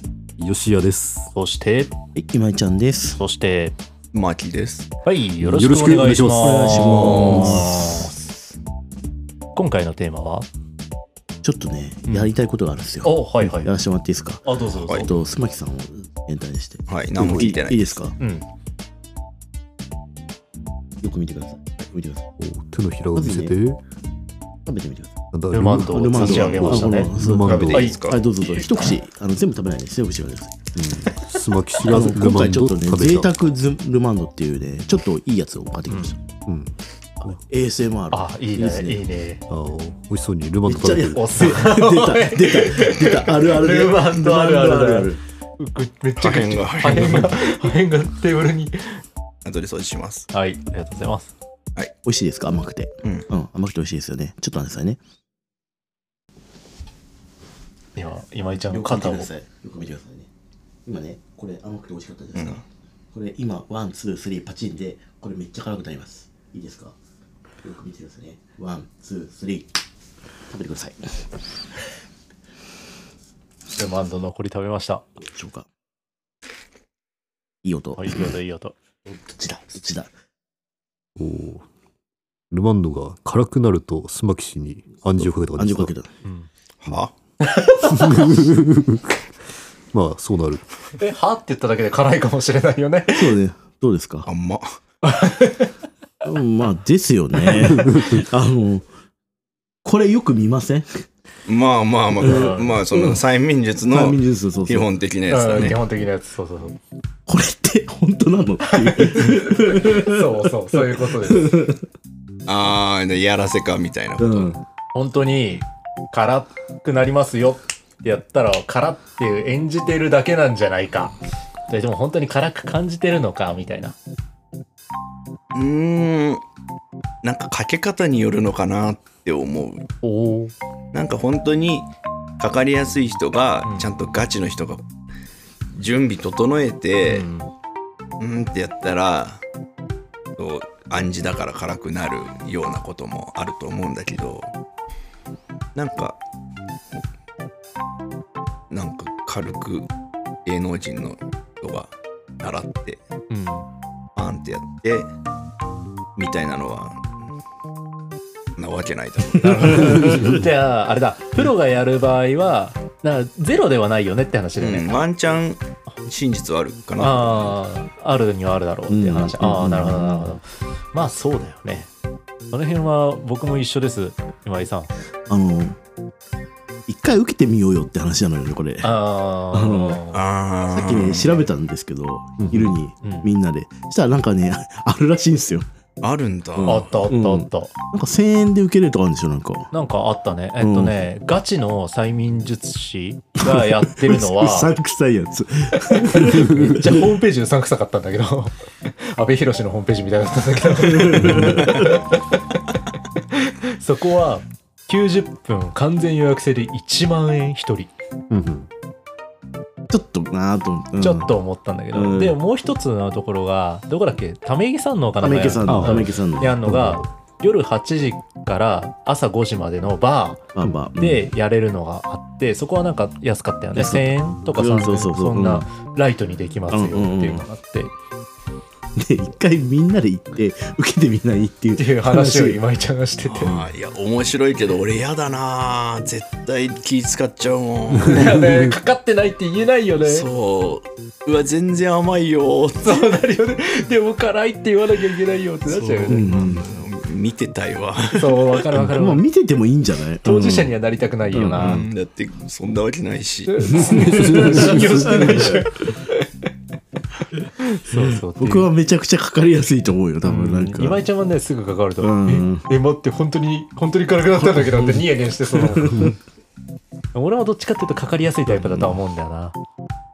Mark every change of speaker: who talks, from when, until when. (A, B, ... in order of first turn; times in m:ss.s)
0:00.4-0:01.3 A
0:01.3-0:01.9 B
0:02.1-0:03.2 C
0:03.2-0:03.8 B
0:04.1-0:04.9 D
0:05.0-0:08.1 B
0:05.4-0:08.0 A
0:06.4-0:08.1 C
0:06.6-0:07.6 D
0:09.5-0:10.5 B
0:11.4-0:18.1 C
0:12.1-0:12.3 B
0:13.0-0:13.7 B
0:14.4-0:15.1 B
0:16.9-0:18.0 D
0:18.2-0:18.4 B
0:21.0-0:22.3 C
0:22.4-0:23.8 A
0:23.1-0:23.5 C
0:24.6-0:25.2 C
0:25.3-0:27.9 A
0:25.5-0:27.1 B
0:25.8-0:31.0 C
0:27.4-0:28.7 D
0:27.7-0:28.0 B
0:30.8-0:33.3 A
0:31.8-0:36.2 C
0:36.4-0:36.8 A
0:37.2-0:39.0 C
0:38.1-0:39.4 B
0:39.5-0:41.5 A
0:40.6-0:45.2 C
0:41.2-0:49.0 B
0:46.2-0:47.4 D
0:49.4-0:50.3 D
0:50.3-0:51.3 B
0:52.0-0:55.0 C
0:58.0-0:59.3 B
0:58.7-1:00.3 C
1:00.8-1:02.6 C
1:02.3-1:02.6 D
1:03.1-1:06.9 C
1:07.6-1:09.7 C
1:10.5-1:11.3 C
1:13.7-1:15.0 B
1:15.2-1:15.7 C
1:17.6-1:18.3 C
1:18.0-1:18.8 B
1:19.0-1:20.1 C
1:21.2-1:21.6 A
1:22.5-1:25.9 A
1:25.1-1:26.1 C
1:26.8-1:27.1 D
1:27.4-1:28.3 B
1:27.8-1:29.2 A
1:29.9-1:30.6 A
1:31.0-1:33.4 B
1:33.1-1:34.3 C
1:34.2-1:34.6 D
1:35.0-1:35.7 B
1:36.2-1:38.9 C
1:37.8-1:38.2 A
1:39.8-1:41.0 C
1:41.5-1:45.8 D
1:42.2-1:43.2 C
1:42.2-1:42.7 B
1:43.9-1:44.9 C
1:45.3-1:46.8 B
1:47.3-1:51.8 C
1:48.7-1:51.6 B
1:52.4-1:54.5 D
1:54.2-1:54.6 C
1:54.9-2:01.1 B
2:01.7-2:03.9 B
2:05.5-2:06.4 D
2:07.2-2:09.9 D
2:10.0-2:10.5 B
2:10.9-2:11.9 D
2:12.4-2:14.8 D
2:15.7-2:17.3 D
2:17.0-2:17.5 B
2:18.2-2:19.4 D
2:20.4-2:24.5 D
2:25.7-2:26.2 D
2:28.7-2:29.9 D
2:30.4-2:33.0 D
2:33.3-2:33.6 B
2:34.2-2:35.1 D
2:36.2-2:37.2 D
2:38.6-2:40.1 D
2:39.4-2:45.0 B
2:39.6-2:40.4 C
2:44.6-2:47.5 D
2:47.0-2:51.9 B
2:48.9-2:50.4 C
2:52.5-2:54.9 B
2:55.3-2:55.8 C
2:56.9-2:58.9 C
2:58.8-3:00.2 B
2:59.5-3:00.0 C
3:00.1-3:01.4 D
3:00.7-3:05.7 C
3:02.4-3:02.7 A
3:03.0-3:03.3 B
3:06.0-3:06.9 D
3:06.6-3:09.7 C
3:06.6-3:07.7 B
3:09.7-3:14.7 B
3:10.6-3:10.9 C
3:13.4-3:17.1 C
3:15.7-3:22.4 B
3:20.8-3:22.0 C
3:23.3-3:27.9 B
3:28.3-3:28.7 A
3:29.9-3:31.3 C
3:31.0-3:47.9 B
3:31.9-3:32.4 C
3:35.2-3:36.6 C
3:35.7-3:36.0 A
3:36.7-3:37.0 A
3:40.5-3:41.2 C
3:43.7-3:45.6 C
3:46.7-3:47.4 C
3:49.0-3:52.6 C
3:51.8-3:53.6 B
3:53.3-3:58.4 D
3:53.4-3:53.7 C
3:58.0-4:00.3 B
4:00.0-4:03.1 D
4:02.8-4:06.3 B
4:05.7-4:08.6 D
4:06.1-4:06.6 C
4:08.1-4:09.2 B
4:08.7-4:10.7 C
4:10.2-4:11.8 B
4:11.3-4:11.8 C
4:11.6-4:14.0 D
4:13.5-4:16.3 B
4:13.6-4:15.7 C
4:14.1-4:15.2 A
4:17.6-4:18.7 B
4:17.9-4:21.0 C
4:20.2-4:26.1 B
4:22.0-4:22.6 C
4:24.4-4:26.2 C
4:27.1-4:29.6 B
4:28.5-4:29.0 C